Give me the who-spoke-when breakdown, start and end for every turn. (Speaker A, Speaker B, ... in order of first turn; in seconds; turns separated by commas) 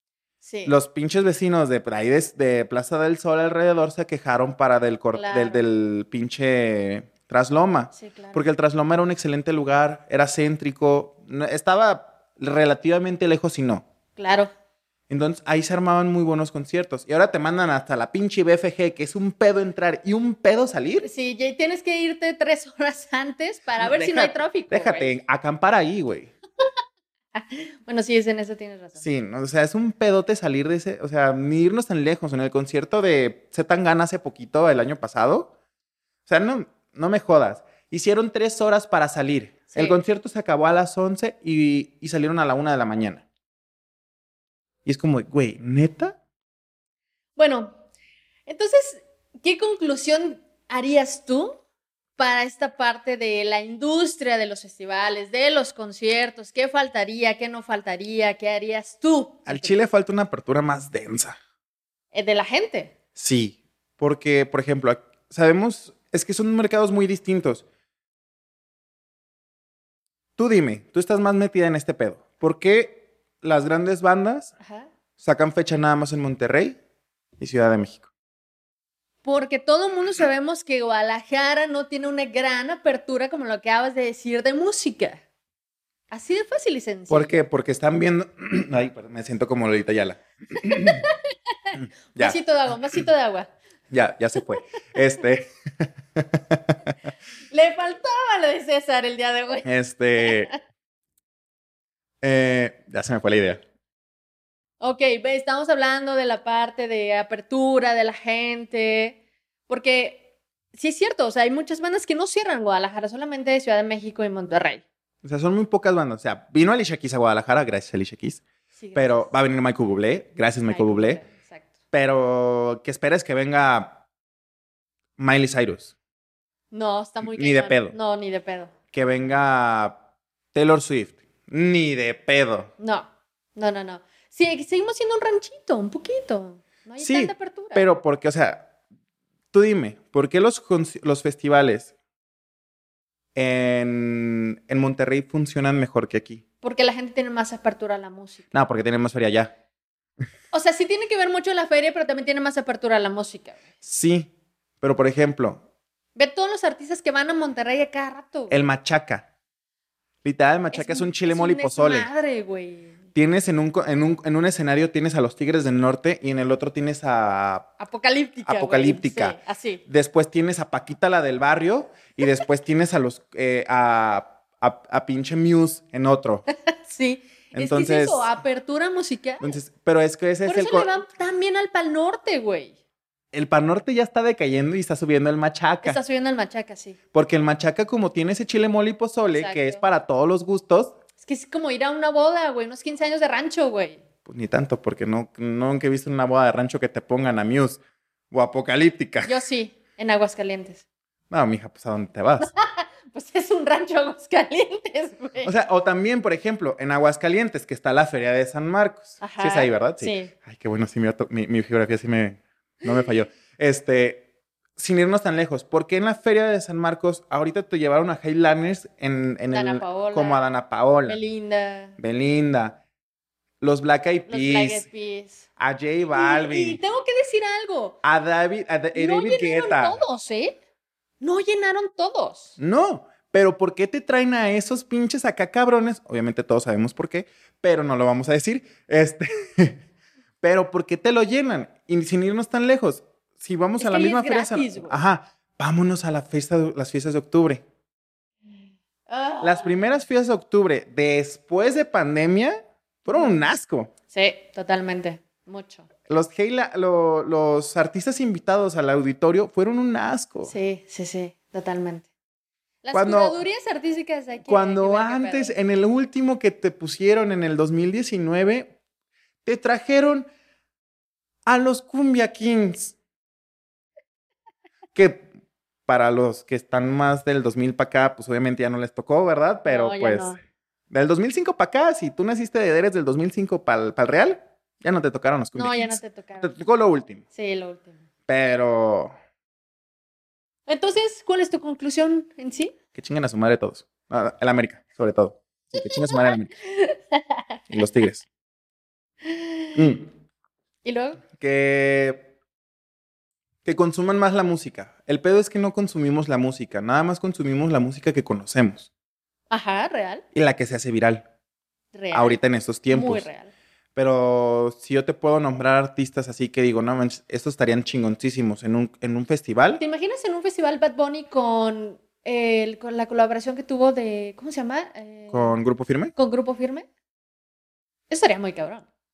Speaker A: 0.4-0.8, Speaker B: 0.7-13.8, Speaker A: 5.1-5.7, Speaker A: 7.9-8.4, Speaker A: 14.2-14.5, Speaker B: 15.1-21.1, Speaker A: 21.0-25.1, Speaker B: 23.8-26.3, Speaker A: 27.4-29.0, Speaker B: 29.0-35.5, Speaker B: 36.3-43.2, Speaker A: 39.7-40.0, Speaker B: 44.9-46.2, Speaker A: 47.4-47.8, Speaker A: 48.5-51.6, Speaker A: 52.2-59.8, Speaker B: 59.5-61.4, Speaker A: 62.1-62.9, Speaker B: 63.2-67.7, Speaker B: 70.4-74.5, Speaker A: 74.6-74.9, Speaker B: 75.2-76.8, Speaker B: 77.4-78.1, Speaker A: 79.2-85.2, Speaker A: 86.1-87.4, Speaker B: 87.1-91.1, Speaker A: 90.6-93.5, Speaker B: 91.8-93.0, Speaker B: 93.9-96.9, Speaker A: 97.5-99.7, Speaker B: 99.7-100.5, Speaker A: 100.2-100.6, Speaker B: 102.2-103.6, Speaker A: 104.8-110.2, Speaker A: 110.7-114.8, Speaker B: 115.2-118.4, Speaker A: 118.8-119.3, Speaker B: 119.0-121.2, Speaker A: 120.7-121.7, Speaker B: 121.9-124.0, Speaker B: 125.2-125.9, Speaker A: 126.7-128.7, Speaker B: 127.2-128.0, Speaker B: 128.9-130.0, Speaker B: 130.5-132.7, Speaker A: 132.8-137.9, Speaker B: 137.0-138.7, Speaker B: 139.5-141.9, Speaker B: 143.3-146.4, Speaker A: 146.6-148.5, Speaker B: 148.5-149.5, Speaker A: 150.5-153.6, Speaker B: 153.8-154.3, Speaker B: 154.8-155.6, Speaker A: 156.2-158.6, Speaker B: 158.5-159.2, Speaker B: 160.2-162.1, Speaker A: 160.7-163.0, Speaker B: 163.2-167.7, Speaker A: 167.8-169.8, Speaker B: 168.4-176.4, Speaker A: 176.7-179.5, Speaker B: 177.5-178.3, Speaker B: 179.4-180.9, Speaker A: 180.4-182.8, Speaker B: 183.3-186.0, Speaker A: 185.8-187.0, Speaker B: 187.1-190.9, Speaker A: 189.3-189.8, Speaker A: 191.2-194.0, Speaker B: 194.3-197.8, Speaker B: 198.3-199.4, Speaker A: 199.2-200.8, Speaker B: 201.3-202.5, Speaker A: 202.4-205.5, Speaker B: 205.4-214.2, Speaker A: 209.2-210.3, Speaker B: 214.8-221.2, Speaker A: 219.5-220.5, Speaker A: 221.1-222.0, Speaker B: 222.0-222.8, Speaker B: 223.6-224.9, Speaker A: 224.3-225.4, Speaker B: 225.6-226.8, Speaker A: 226.1-228.0, Speaker B: 228.0-230.0, Speaker A: 228.9-230.6, Speaker A: 231.2-232.6, Speaker B: 232.6-239.8, Speaker B: 240.4-247.6, Speaker A: 243.8-245.0, Speaker A: 249.1-250.0, Speaker B: 249.4-253.9, Speaker A: 253.1-253.5, Speaker A: 254.1-255.9, Speaker B: 256.1-260.5, Speaker A: 260.4-262.1, Speaker A: 262.8-265.6, Speaker B: 262.9-263.4, Speaker B: 264.4-268.7, Speaker B: 269.4-270.3, Speaker B: 271.5-272.9, Speaker B: 274.9-275.3, Speaker B: 275.9-280.4, Speaker A: 279.7-280.4, Speaker B: 280.9-287.2, Speaker A: 285.6-286.5, Speaker A: 287.3-288.1, Speaker B: 288.3-289.1, Speaker A: 290.7-292.7, Speaker B: 292.9-296.5, Speaker A: 295.7-297.6, Speaker B: 297.7-298.3, Speaker A: 299.2-299.9, Speaker B: 299.8-300.1, Speaker A: 300.8-301.2, Speaker B: 301.3-302.3, Speaker B: 303.6-308.9, Speaker A: 309.5-310.2, Speaker B: 310.3-311.2, Speaker A: 311.9-313.5, Speaker B: 312.1-313.3, Speaker B: 313.9-319.8, Speaker A: 319.8-325.6, Speaker B: 325.3-326.1, Speaker A: 326.1-326.9, Speaker A: 328.1-328.8